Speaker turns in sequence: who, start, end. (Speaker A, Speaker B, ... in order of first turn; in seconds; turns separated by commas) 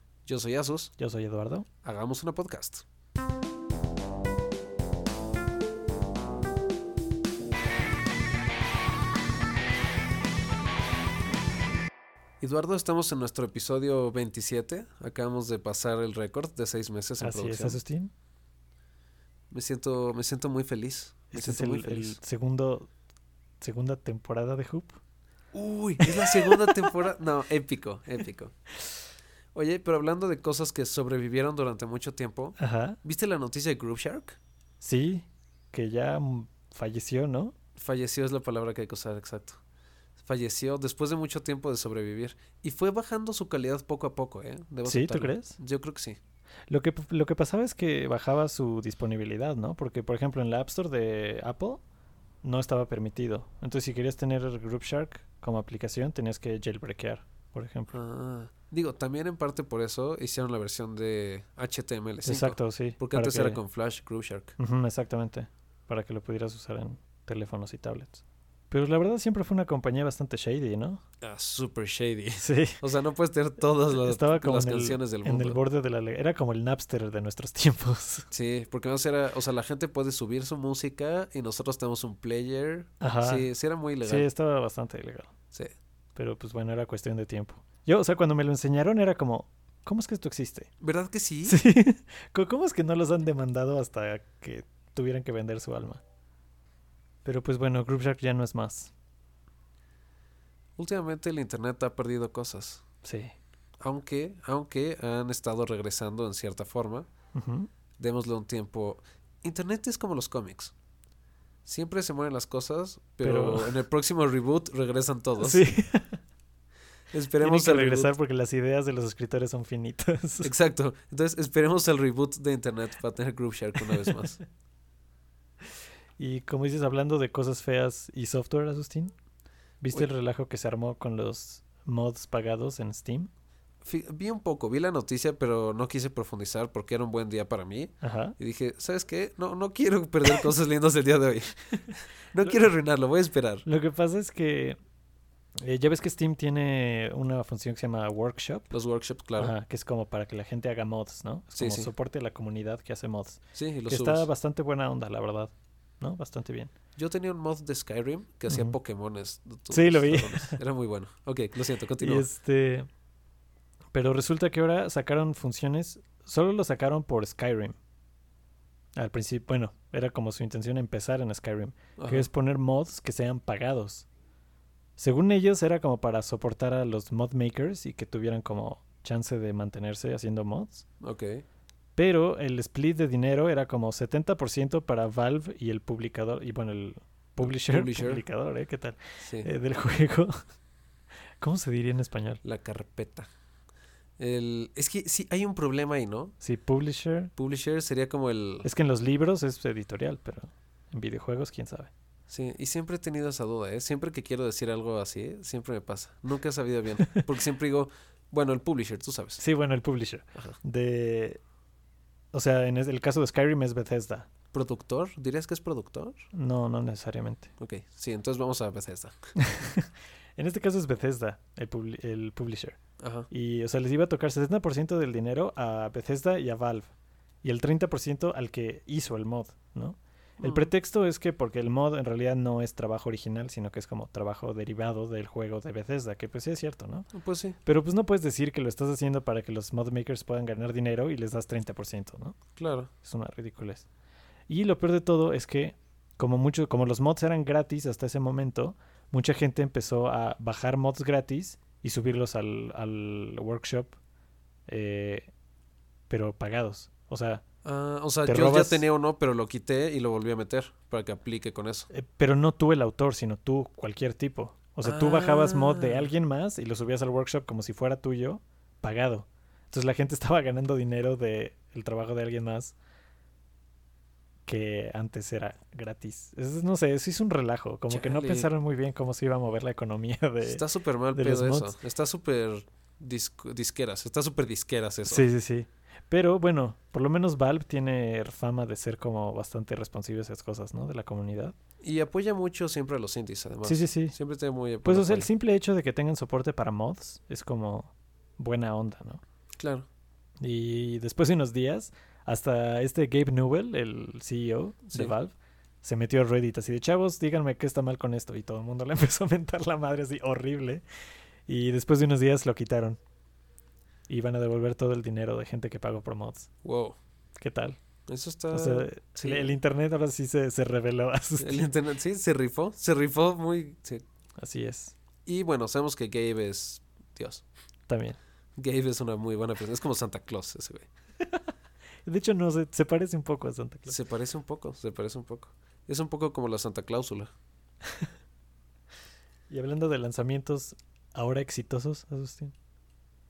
Speaker A: 0.2-0.9, Speaker B: 1.0-1.7, Speaker A: 1.8-2.8, Speaker A: 12.4-17.8, Speaker B: 17.2-18.1, Speaker A: 19.5-22.2, Speaker B: 21.3-22.9, Speaker B: 23.6-25.0, Speaker A: 25.5-28.5, Speaker B: 26.0-26.9, Speaker A: 29.5-34.4, Speaker B: 32.6-33.0, Speaker B: 34.8-37.5, Speaker A: 37.8-39.6, Speaker A: 40.2-46.2, Speaker B: 44.8-45.6, Speaker B: 46.7-51.8, Speaker B: 52.4-58.0, Speaker A: 57.9-64.5, Speaker B: 62.2-63.6, Speaker B: 64.6-71.0, Speaker A: 71.2-75.6, Speaker B: 72.4-72.8, Speaker B: 73.8-78.3, Speaker A: 78.3-84.3, Speaker B: 83.0-83.5, Speaker B: 84.0-85.3, Speaker B: 86.2-90.7, Speaker A: 90.8-91.6, Speaker B: 91.5-96.0, Speaker B: 97.2-98.9, Speaker A: 100.8-102.8, Speaker B: 103.0-103.3, Speaker A: 103.8-107.1, Speaker B: 107.3-107.7, Speaker A: 108.0-110.7, Speaker A: 111.6-115.6, Speaker B: 113.2-113.8, Speaker B: 115.4-116.2, Speaker A: 117.1-118.1, Speaker B: 117.4-120.5, Speaker A: 120.4-124.4, Speaker B: 126.2-129.1, Speaker B: 129.8-133.3, Speaker A: 133.8-143.6, Speaker B: 138.0-138.3, Speaker B: 143.6-144.8, Speaker B: 145.6-148.7, Speaker A: 148.7-149.5, Speaker B: 149.4-156.7, Speaker A: 151.5-151.9, Speaker A: 153.5-154.3, Speaker A: 157.0-162.3, Speaker B: 158.5-158.7, Speaker B: 159.7-160.6, Speaker B: 162.0-162.9, Speaker B: 163.9-167.8, Speaker B: 168.9-174.1, Speaker A: 172.0-172.3, Speaker B: 175.0-180.8, Speaker A: 181.0-181.4, Speaker B: 182.0-190.4, Speaker A: 187.4-188.2, Speaker A: 189.2-189.5, Speaker B: 191.4-192.4, Speaker A: 192.4-193.3, Speaker A: 194.2-196.3, Speaker B: 196.4-197.3, Speaker A: 197.4-198.7, Speaker B: 198.6-201.9, Speaker A: 202.3-209.4, Speaker B: 209.4-211.4, Speaker B: 212.3-214.3, Speaker A: 214.5-216.3, Speaker B: 216.3-217.5, Speaker A: 217.6-219.1, Speaker B: 219.4-222.8, Speaker A: 223.0-223.3, Speaker B: 223.3-226.9, Speaker B: 227.4-237.1, Speaker A: 230.4-230.7, Speaker A: 237.1-237.6, Speaker B: 237.6-242.4, Speaker A: 242.6-242.9, Speaker B: 243.0-243.8, Speaker B: 244.5-253.9, Speaker B: 254.7-255.3, Speaker B: 256.1-257.4, Speaker A: 257.6-261.9, Speaker B: 258.2-258.8, Speaker B: 261.9-272.7, Speaker A: 264.8-266.1, Speaker B: 274.5-280.6, Speaker A: 277.9-278.5, Speaker A: 280.4-285.2, Speaker B: 281.1-281.7, Speaker B: 285.1-291.5, Speaker A: 291.8-295.3, Speaker B: 293.6-294.1, Speaker B: 294.8-299.2, Speaker A: 299.6-299.9, Speaker B: 300.4-310.8, Speaker B: 311.5-313.0, Speaker B: 314.1-316.5, Speaker A: 316.6-317.0, Speaker B: 317.4-317.8, Speaker A: 318.1-319.5, Speaker B: 318.5-321.7, Speaker A: 321.4-324.0, Speaker B: 324.4-324.9, Speaker A: 325.2-327.4, Speaker B: 327.9-328.2, Speaker A: 328.6-330.9, Speaker B: 332.1-334.0, Speaker A: 333.9-337.3, Speaker B: 339.5-342.5